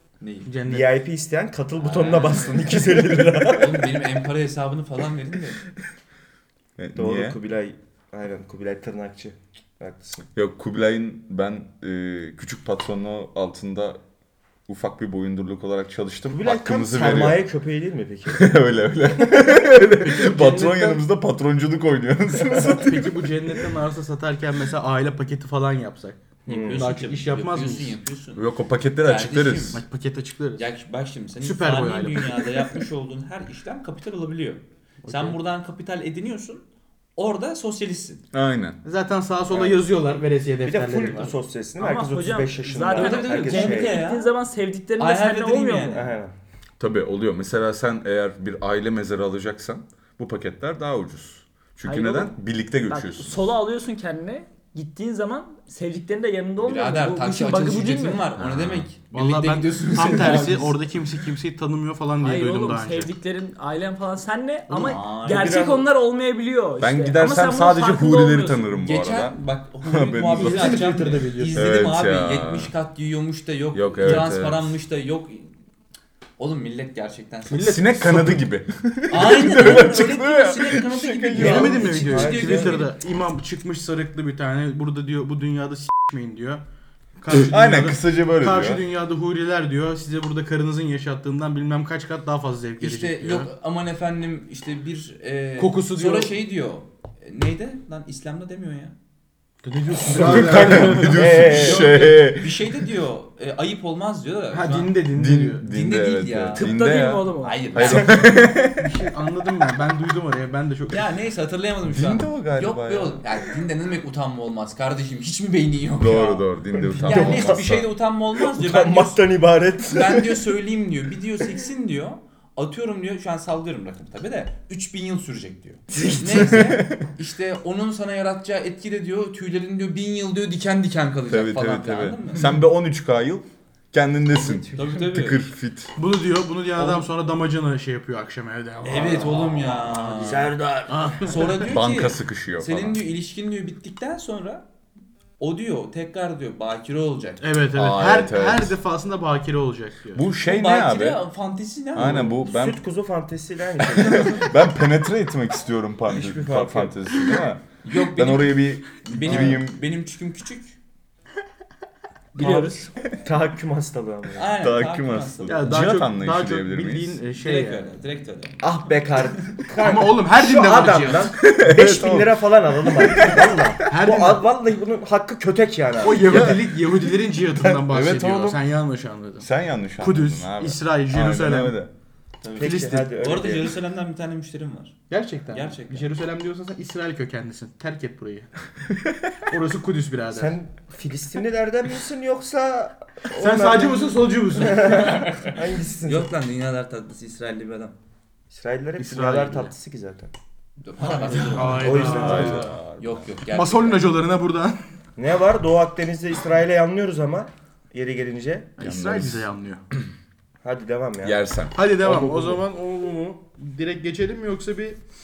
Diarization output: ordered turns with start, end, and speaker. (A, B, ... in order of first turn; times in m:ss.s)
0:00.2-0:00.5 A
0:00.4-0:01.0 B
0:00.6-0:04.0 C
0:01.8-0:05.6 A
0:06.8-0:07.4 D
0:07.0-0:10.3 C
0:10.3-0:14.0 D
0:14.7-0:17.4 D
0:16.3-0:18.5 C
0:18.3-0:23.5 D
0:20.2-0:20.6 C
0:20.4-0:20.9 B
0:22.7-0:28.0 B
0:26.4-0:26.9 C
0:26.5-0:29.8 A
0:28.4-0:29.8 D
0:29.7-0:30.7 B
0:30.6-0:36.6 A
0:31.4-0:32.6 B
0:35.0-0:35.4 B
0:37.2-0:38.2 A
0:38.3-0:38.8 D
0:38.8-0:41.4 B
0:39.5-0:39.9 C
0:40.6-0:44.0 C
0:41.8-0:46.1 E
0:42.9-0:44.3 A
0:45.0-0:46.1 A
0:45.9-0:46.3 C
0:46.8-0:53.4 D
0:51.8-0:58.3 E
0:56.6-1:00.8 A
0:58.4-0:58.9 D
0:59.1-1:03.1 B
1:02.2-1:08.7 E
1:04.7-1:05.9 C
1:04.8-1:05.7 A
1:06.8-1:10.6 D
1:08.8-1:15.5 A
1:10.3-1:11.7 B
1:11.5-1:12.7 D
1:13.7-1:14.7 D
1:14.0-1:14.3 B
1:16.4-1:17.8 A
1:17.5-1:18.4 B
1:17.5-1:21.8 D
1:19.1-1:22.9 A
1:21.3-1:22.9 C
1:21.4-1:26.6 B
1:27.2-1:33.5 B
1:27.3-1:28.8 D
1:32.8-1:38.9 A
1:35.6-1:36.3 B
1:39.6-1:41.5 B
1:40.0-1:42.6 D
1:40.2-1:42.0 C
1:41.4-1:45.0 A
1:44.5-1:45.7 B
1:45.1-1:48.8 D
1:45.7-1:46.8 A
1:46.5-1:47.6 E
1:47.4-1:48.4 A
1:48.7-1:51.1 B
1:50.9-1:59.2 A
1:51.9-1:53.3 D
1:56.0-1:57.9 D
1:56.8-1:57.8 C
1:58.4-2:00.4 C
1:59.8-2:12.5 A
2:05.9-2:06.8 C
2:06.3-2:07.0 D
2:11.3-2:15.9 D
2:14.7-2:15.4 A
2:16.0-2:19.4 B
2:16.8-2:17.0 A
2:18.8-2:24.6 A
2:19.0-2:21.4 C
2:20.9-2:21.7 B
2:21.6-2:23.0 D
2:25.4-2:27.4 A
2:27.4-2:30.2 B
2:27.7-2:28.8 D
2:30.1-2:31.2 D
2:30.4-2:32.4 A
2:31.9-2:32.8 D
2:32.0-2:34.5 C
2:33.8-2:39.8 D
2:36.0-2:37.4 C
2:37.8-2:40.8 A
2:39.2-2:39.6 C
2:42.3-2:42.9 E
2:42.4-2:44.6 C
2:44.3-2:45.8 A
2:44.5-2:47.2 D
2:45.5-2:47.9 B
2:47.3-2:48.6 A
2:48.6-2:56.5 C
2:49.8-2:51.3 B
2:51.3-2:53.7 D
2:53.2-2:54.5 B
2:56.0-2:59.5 B
2:56.2-2:58.6 D
2:59.4-3:01.9 D
3:00.0-3:01.8 B
3:02.4-3:06.1 A
3:02.6-3:03.8 C
3:02.6-3:03.2 B
3:05.1-3:08.5 B
3:09.5-3:10.6 B
3:10.3-3:16.3 C
3:13.3-3:15.1 B
3:14.6-3:18.0 A
3:18.5-3:20.3 C
3:19.0-3:19.7 B
3:20.8-3:24.2 A
3:21.3-3:22.7 B
3:21.6-3:22.8 C
3:22.0-3:23.3 D
3:23.5-3:24.8 B
3:25.2-3:28.8 C
3:28.8-3:29.8 B
3:28.8-3:29.5 D
3:30.6-3:31.4 C
3:31.2-3:31.8 D
3:31.7-3:35.0 B
3:32.0-3:32.6 C